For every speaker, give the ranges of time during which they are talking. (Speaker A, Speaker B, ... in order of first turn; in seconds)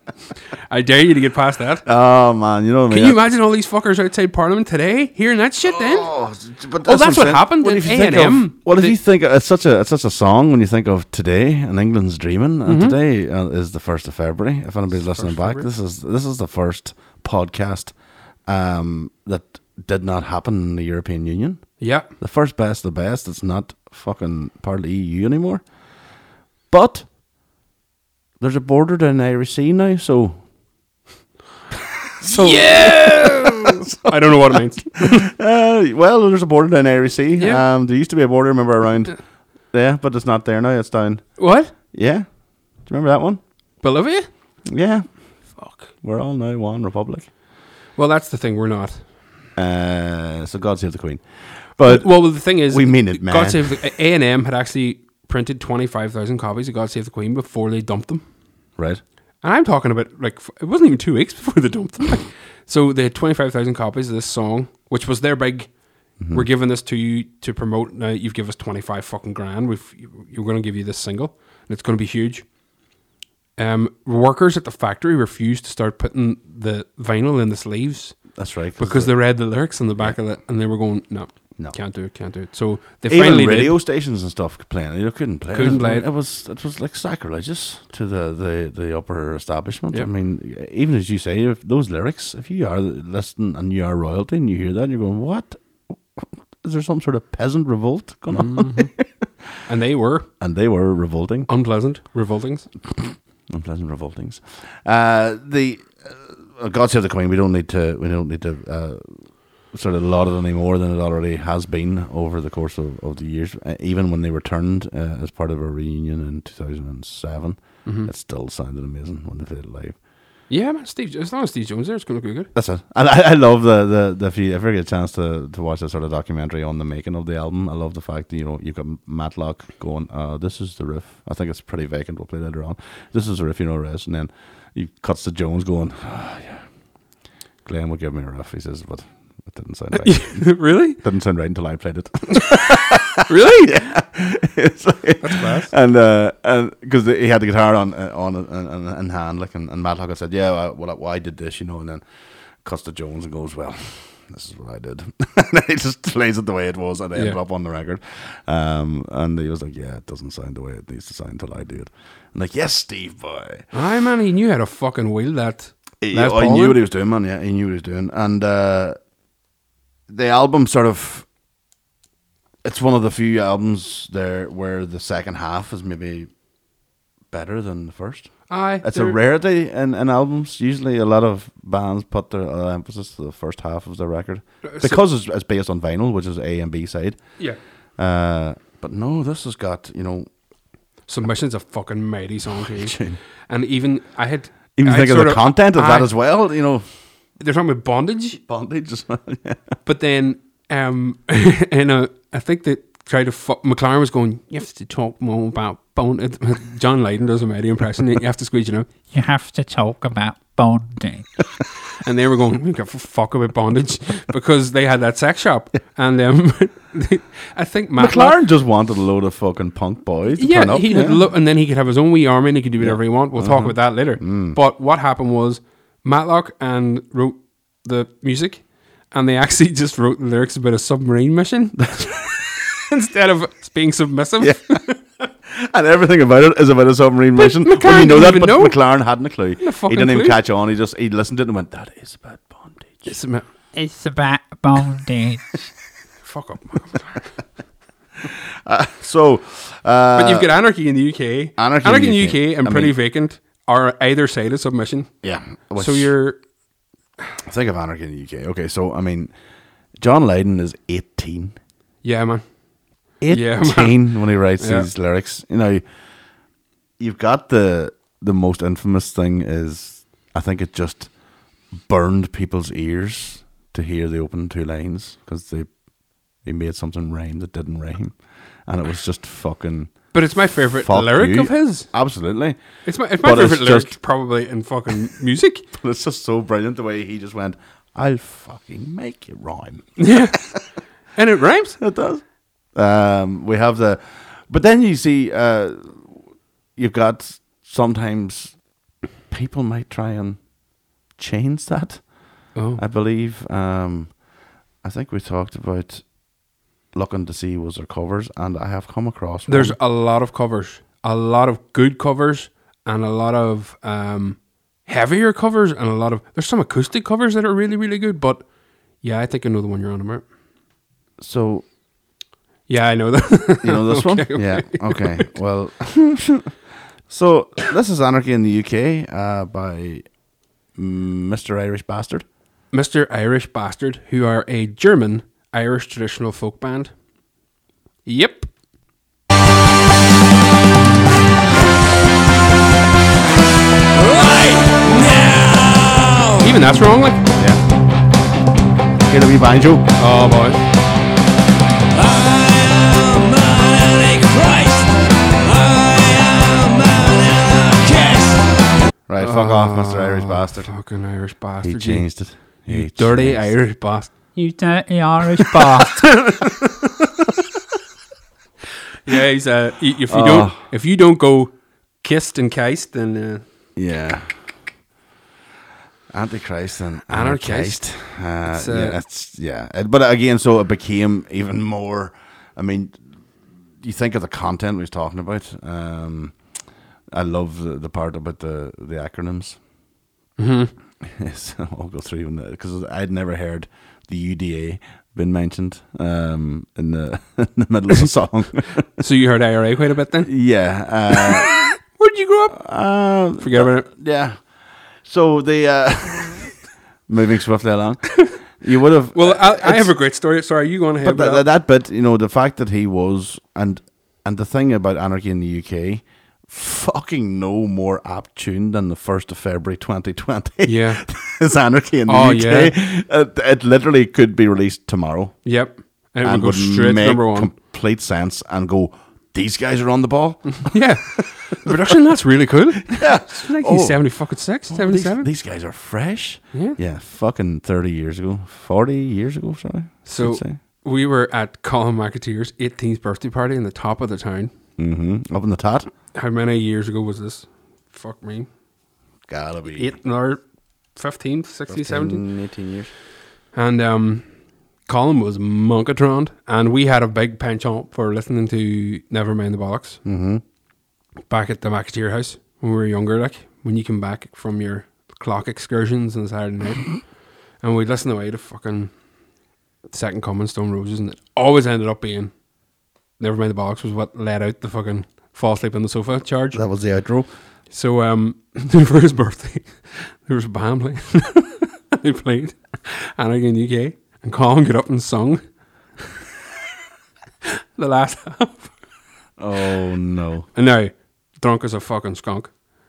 Speaker A: 0.7-1.9, 2.9-6.1, 6.8-9.0, 12.7-13.0, 14.9-15.7, 21.8-22.1, 32.2-35.2, 37.4-37.6, 41.4-41.7, 43.8-44.3, 45.5-45.9, 47.9-49.0, 51.8-58.2, 59.4-65.7, 66.2-72.5, 73.6-83.8, 85.5-86.0, 98.3-98.9, 99.7-100.3, 101.5-102.7, 117.8-118.1, 120.5-122.5, 140.0-141.0, 143.2-143.8, 145.2-145.7, 163.7-166.8, 178.5-179.2, 184.6-185.0, 191.1-196.1, 197.4-198.4, 199.8-208.9, 212.0-218.4, 220.4-235.0, 237.3-240.4, 243.1-243.4, 246.2-247.3, 250.2-255.1, 255.8-256.4, 262.0-262.5, 263.2-264.9, 280.1-281.9, 282.8-285.6, 290.0-290.4, 291.1-291.8, 302.5-302.8, 309.5-318.4, 319.0-320.2, 322.7-325.3, 332.7-336.9, 338.0-338.5, 346.4-347.3, 350.0-350.6, 359.2-364.1, 366.0-366.8, 369.0-373.4, 377.1-377.8, 378.5-379.0, 390.4-390.7, 399.0-403.9, 409.1-411.4, 420.6-421.0, 422.1-422.7, 425.4-427.5, 430.6-435.3, 436.5-436.8, 440.0-444.5, 446.1-448.5, 449.7-450.4, 450.9-452.2, 453.5-454.2, 454.9-460.0, 461.3-467.0, 467.6-468.9, 469.9-472.3, 473.2-476.6, 477.7-485.4, 487.8-488.7, 490.5-492.5
Speaker B: 1.8-3.2, 5.6-25.7, 26.7-27.1, 28.4-30.4, 32.2-43.4, 44.6-47.3, 49.5-53.8, 58.8-59.0, 66.2-66.5, 78.3-80.2, 83.0-99.3, 100.4-101.5, 103.5-120.0, 122.5-136.7, 137.6-152.0, 152.6-163.7, 166.0-169.0, 170.1-171.3, 172.6-176.3, 177.3-190.3, 192.5-193.2, 194.8-196.8, 198.5-199.7, 217.9-221.3, 222.8-224.6, 234.4-234.8, 235.5-243.2, 248.6-250.5, 251.6-253.0, 255.2-256.1, 257.4-259.3, 259.9-261.6, 263.2-265.8, 267.0-283.9, 285.8-290.6, 291.8-298.6, 299.3-300.5, 301.1-304.3, 304.8-306.4, 306.9-309.8, 321.2-321.7, 323.6-326.5, 327.1-330.1, 330.7-332.2, 347.4-347.6, 349.0-349.9, 359.1-360.7, 361.6-363.6, 370.1-370.6, 373.8-374.5, 376.1-383.1, 383.8-386.5, 387.1-389.6, 391.0-399.0, 400.2-401.5, 402.5-410.0, 411.0-425.5, 426.2-431.9, 432.9-440.6, 444.8-445.9, 449.3-449.9, 451.7-452.9, 460.0-460.4, 476.5-477.3, 489.4-490.5
Speaker C: 209.1-211.3, 243.7-245.6, 364.3-366.4